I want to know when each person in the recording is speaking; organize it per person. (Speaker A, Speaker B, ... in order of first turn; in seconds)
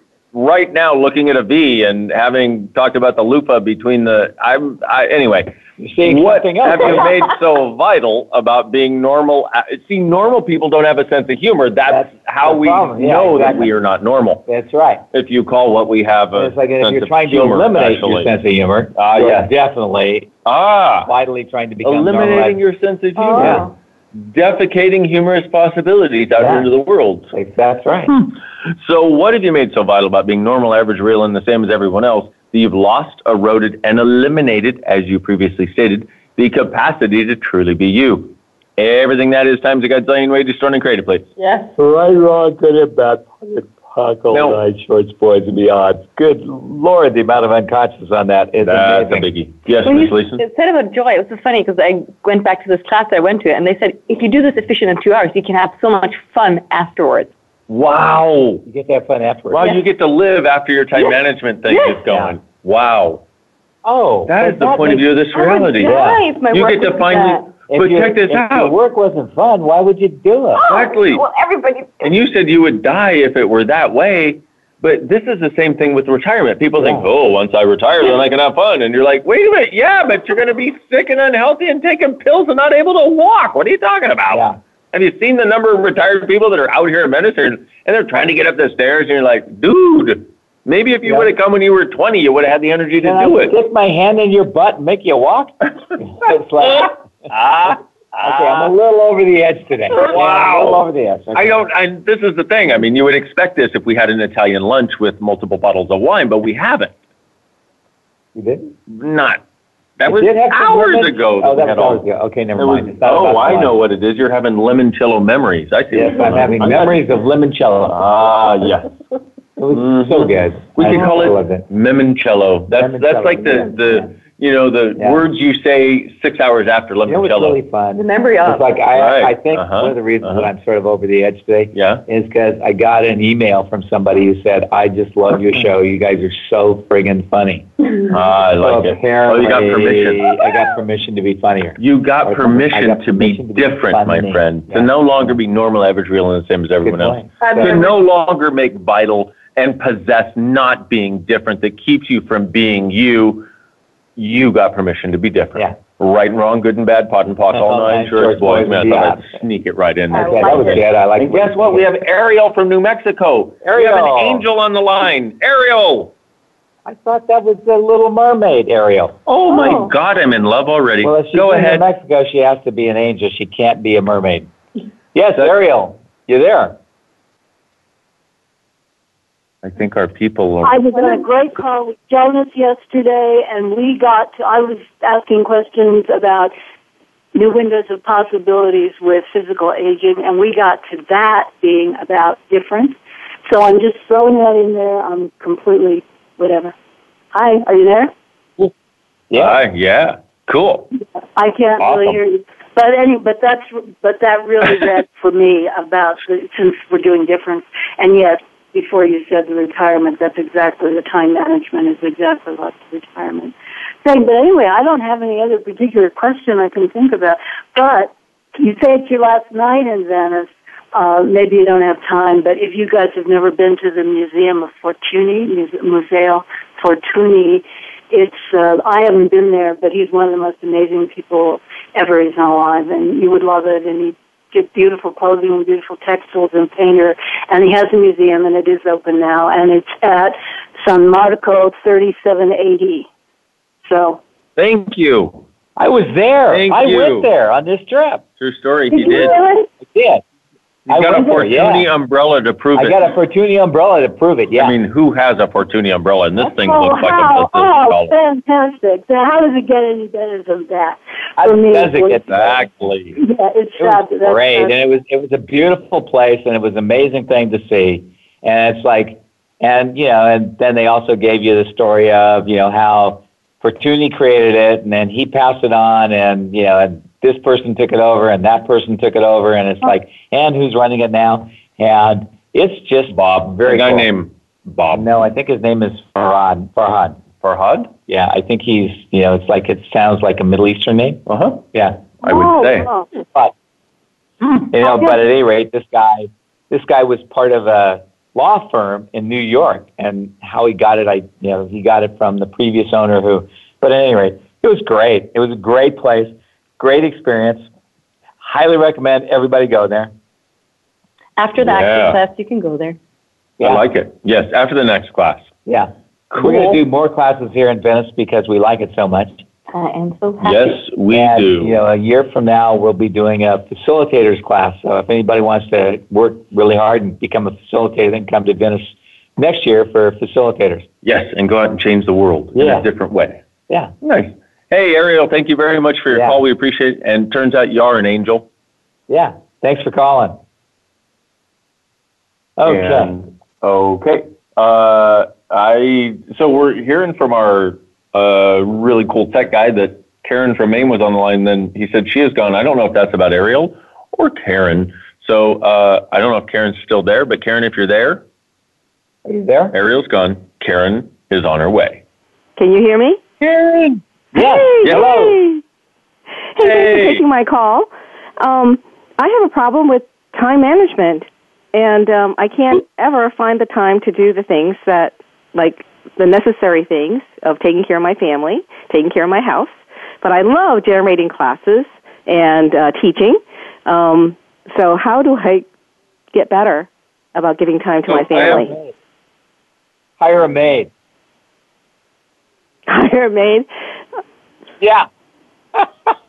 Speaker A: 0.3-14.5, 15.1-18.3, 18.9-19.5, 20.5-21.1, 21.8-27.3, 28.1-41.3, 44.3-44.6, 48.6-50.4, 57.7-58.6, 59.5-63.2, 64.3-68.8, 70.7-71.2, 72.0-93.6, 96.6-98.7, 99.9-100.8, 101.3-106.9, 108.9-109.4, 110.0-112.0, 112.6-117.0, 117.9-118.9, 119.7-127.6, 129.0-130.5, 131.7-132.0, 138.1-140.3, 141.8-153.5, 154.2-166.1, 169.3-171.9, 179.6-180.8, 199.3-200.9, 201.8-202.2, 244.6-245.4, 246.5-247.3, 248.4-249.4, 250.9-253.1, 254.5-258.2, 262.3-263.1, 283.1-285.1, 287.4-287.9, 291.3-291.6, 292.2-292.9, 311.6-312.2, 313.6-315.5, 316.3-316.8, 320.4-321.8, 331.0-333.4, 334.0-338.5, 342.6-358.2, 359.7-362.0, 363.4-364.0, 364.8-365.2, 366.6-367.2, 388.1-388.7
Speaker B: 5.8-7.2, 11.9-13.7, 14.5-15.0, 16.4-20.3, 21.1-22.6, 23.4-23.6, 26.4-26.7, 27.3-28.1, 41.8-49.3, 58.7-59.8, 62.1-62.4, 63.9-66.2, 67.7-70.7, 76.8-77.1, 84.3-84.6, 91.0-91.3, 93.0-97.0, 98.2-101.6, 108.3-108.7, 110.0-113.8, 115.9-118.1, 119.6-121.7, 122.7-124.1, 125.0-125.2, 127.1-137.7, 138.6-145.4, 146.8-147.8, 157.5-159.4, 160.1-161.8, 163.6-164.4, 166.9-169.2, 171.0-174.5, 175.1-176.8, 199.3-199.6, 245.8-248.2, 249.8-250.2, 250.9-251.9, 252.8-254.7, 261.4-262.9, 263.8-284.1, 284.9-287.2, 288.1-291.2, 291.7-292.2, 293.3-293.5, 294.7-307.7, 308.4-310.1, 315.7-319.4, 321.1-330.9, 332.6-332.9, 336.1-336.4, 339.1-340.4, 342.6-343.1, 359.3-359.8, 364.4-365.4, 388.3-388.9, 390.2-390.9, 394.8-395.1
Speaker C: 23.2-23.7, 41.4-41.8, 49.9-57.3, 61.7-62.0, 65.3-67.6, 70.6-72.1, 128.0-128.7, 147.4-148.0, 160.1-160.8, 169.5-169.9, 311.4-313.0, 319.7-320.8
Speaker D: 180.6-186.5, 187.3-196.7, 197.3-198.1, 201.3-243.1, 243.8-244.2, 248.9-249.7, 256.5-262.3, 263.1-264.8, 292.2-293.1, 294.8-295.2
Speaker E: 362.6-363.2, 364.4-365.6, 366.6-385.7, 386.3-388.7, 392.9-393.7